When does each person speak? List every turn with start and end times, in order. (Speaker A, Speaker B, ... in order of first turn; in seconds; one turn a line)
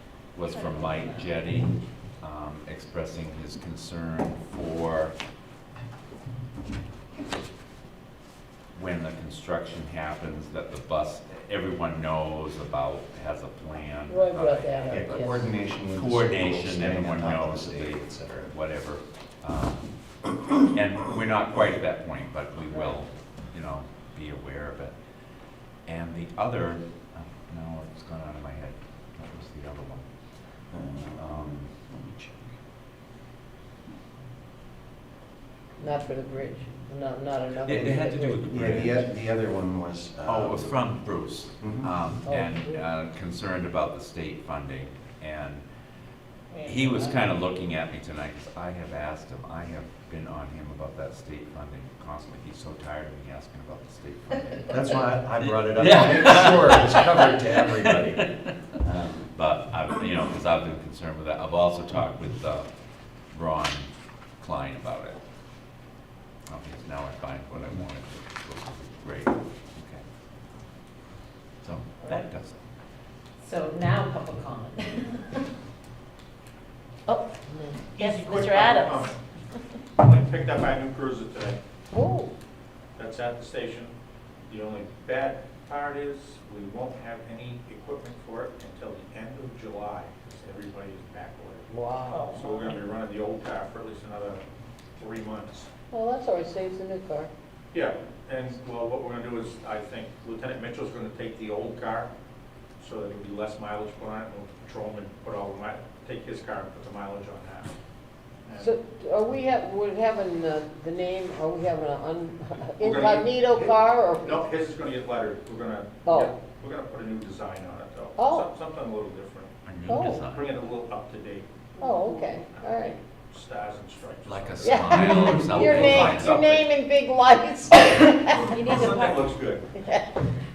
Speaker A: 0.3-5.2
Speaker B: 0.5-1.3
Speaker A: 8.7-15.2
Speaker C: 14.1-15.5
Speaker D: 14.9-18.5
Speaker A: 15.9-19.9
Speaker A: 20.6-24.9
Speaker A: 25.9-30.1
Speaker D: 30.7-32.5
Speaker A: 31.1-31.7
Speaker C: 35.8-38.4
Speaker A: 37.6-39.1
Speaker D: 38.5-40.7
Speaker A: 40.2-45.6
Speaker D: 41.6-41.9
Speaker C: 42.2-42.8
Speaker A: 46.6-62.7
Speaker D: 54.7-58.3
Speaker D: 58.8-59.2
Speaker A: 63.3-65.2
Speaker A: 66.5-70.0
Speaker A: 71.6-72.6
Speaker B: 73.4-75.5
Speaker B: 77.1-79.1
Speaker E: 77.9-79.2
Speaker E: 80.0-81.6
Speaker C: 81.9-82.3
Speaker E: 83.0-83.9
Speaker E: 84.5-91.7
Speaker C: 91.7-92.3
Speaker B: 92.1-92.8
Speaker E: 92.2-94.4
Speaker E: 95.0-95.7
Speaker C: 95.9-97.3
Speaker E: 97.7-102.1
Speaker E: 102.8-107.7
Speaker E: 108.5-108.7
Speaker C: 108.6-114.4
Speaker E: 112.8-119.6
Speaker C: 116.0-116.3
Speaker C: 118.2-118.5
Speaker A: 119.6-120.5
Speaker C: 119.9-120.2
Speaker E: 120.2-121.7
Speaker C: 121.8-123.0
Speaker E: 122.5-124.9
Speaker A: 124.2-126.4
Speaker C: 124.6-128.7
Speaker B: 125.6-126.5
Speaker B: 128.5-129.3
Speaker E: 128.6-129.6